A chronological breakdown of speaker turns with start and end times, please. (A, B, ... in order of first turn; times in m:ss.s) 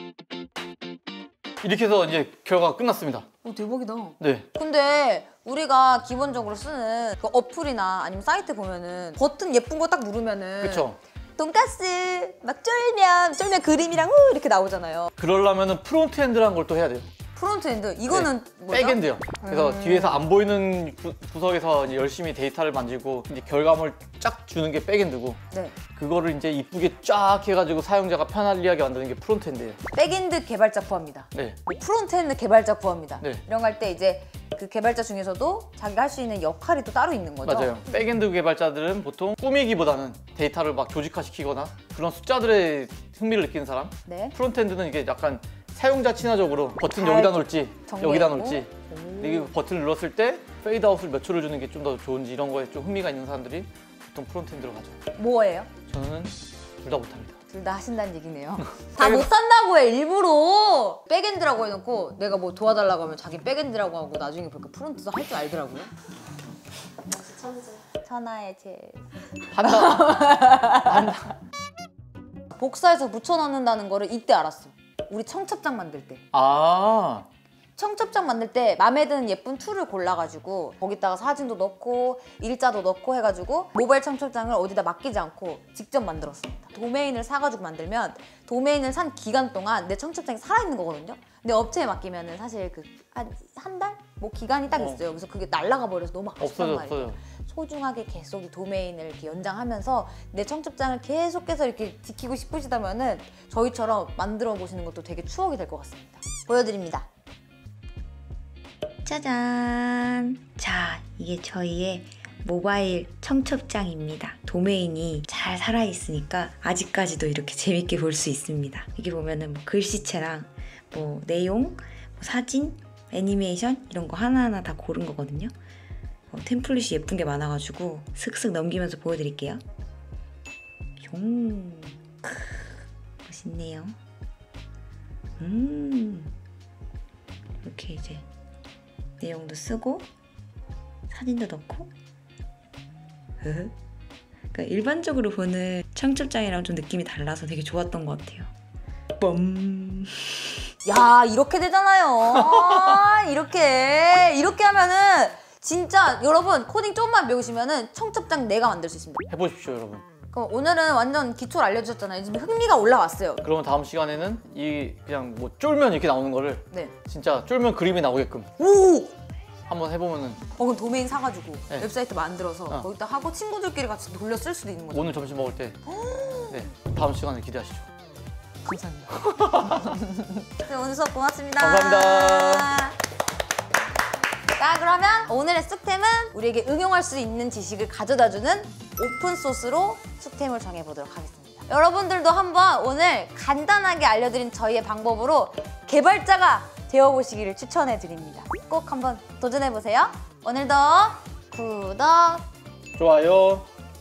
0:01.6-0:03.3 A
0:03.4-0:15.1 B
0:04.2-0:04.4 A
0:10.6-0:11.0 A
0:15.2-0:17.1 A
0:17.3-0:20.3 B
0:18.1-0:25.4 A
0:25.5-0:25.8 B
0:25.9-0:29.8 A
0:29.9-0:37.8 B
0:37.4-0:55.0 A
0:44.1-0:44.3 B
0:46.9-0:49.5 B
0:55.2-0:55.7 B
0:55.9-0:57.4 A
0:57.5-1:05.9 B
0:59.0-0:59.3 A
1:07.4-1:09.0 B
1:09.5-1:11.2 A
1:09.6-1:11.3 B
1:12.6-1:16.2 B
1:16.3-1:17.3 A
1:17.8-1:47.1 B
1:34.7-1:35.0 A
1:36.4-1:37.2 A
1:49.0-2:05.5 C
2:06.3-2:09.6 C
2:11.0-2:14.0 C
2:15.4-2:16.3 C
2:17.6-2:18.3 C
2:19.2-2:20.1 C
2:21.1-2:21.9 C
2:23.4-2:23.8 C
2:24.5-2:28.5 C
2:29.2-2:30.6 C
2:30.8-2:39.2 B
2:39.3-2:40.0 A
2:40.3-2:43.4 B
2:43.4-2:48.5 A
2:48.6-2:49.2 B
2:49.7-2:50.4 A
2:50.6-2:55.2 B
2:54.9-2:55.8 A
2:55.9-2:56.6 B
2:56.5-2:57.9 A
2:58.6-3:03.0 B
2:59.3-2:59.9 A
3:01.6-3:02.7 A
3:04.6-3:22.4 B
3:23.0-3:23.7 A